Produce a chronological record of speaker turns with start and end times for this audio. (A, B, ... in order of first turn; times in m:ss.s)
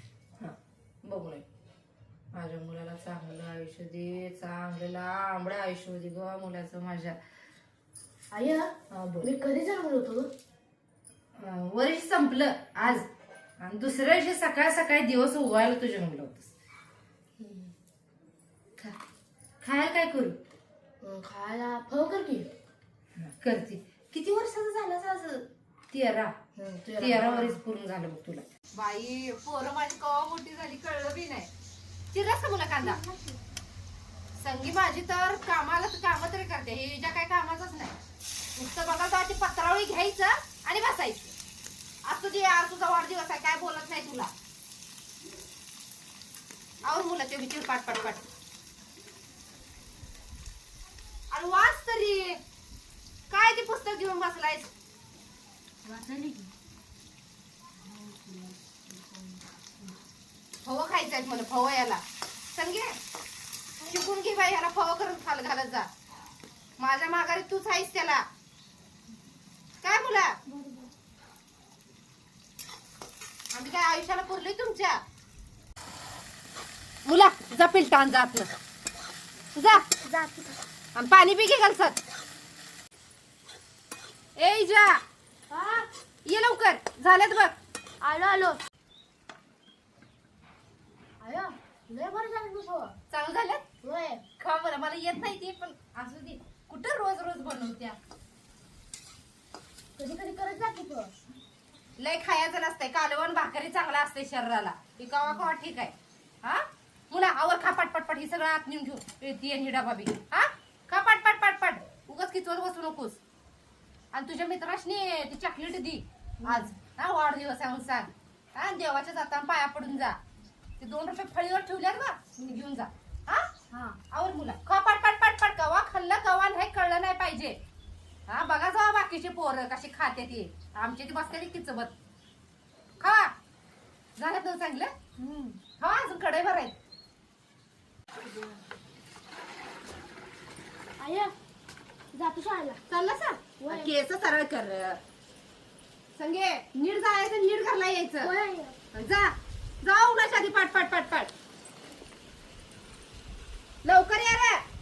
0:00.4-0:01.4 A
0:02.3-0:07.2 A
0:08.3-0:10.3 B
0:08.9-0:09.3 A
0:11.4-0:13.1 A
0:13.6-0:16.5 A
0:17.4-0:17.7 B
0:19.6-0:20.4 A
0:21.0-0:22.5 B
0:23.2-0:26.3 A
0:26.5-0:27.6 B
0:27.0-0:31.5 A
0:32.1-0:33.0 A
0:32.8-0:33.4 B
0:34.4-0:37.9 A
0:38.6-0:41.3 A
0:42.0-0:44.3 A
0:46.8-0:48.2 A
0:51.3-0:52.4 A
0:53.3-0:54.7 A
0:55.8-0:56.5 B
0:57.8-0:59.4 B
1:00.6-1:02.0 A
1:02.5-1:03.0 A
1:03.8-1:05.9 A
1:06.8-1:08.2 A
1:09.8-1:10.4 A
1:10.5-1:10.9 B
1:13.5-1:15.0 A
1:17.0-1:18.5 A
1:19.6-1:19.8 A
1:19.7-1:20.6 B
1:20.9-1:22.0 A
1:24.4-1:25.0 A
1:25.5-1:25.9 B
1:26.2-1:27.5 A
1:28.0-1:28.6 B
1:31.2-1:32.9 B
1:33.1-1:33.6 A
1:33.8-1:34.2 B
1:34.4-1:38.0 A
1:40.0-1:41.2 B
1:42.0-1:53.2 A
1:54.1-2:00.2 A
1:56.4-1:56.7 B
2:00.8-2:03.5 A
2:03.7-2:04.0 B
2:04.1-2:07.6 A
2:08.3-2:11.9 A
2:13.0-2:13.3 A
2:14.2-2:14.9 A
2:15.2-2:15.6 B
2:15.8-2:16.7 A
2:18.2-2:18.6 B
2:21.0-2:21.3 B
2:22.1-2:22.8 B
2:22.9-2:25.0 A
2:23.6-2:23.9 B
2:26.2-2:28.3 A
2:28.2-2:28.8 B
2:28.9-2:31.3 A
2:33.8-2:34.6 A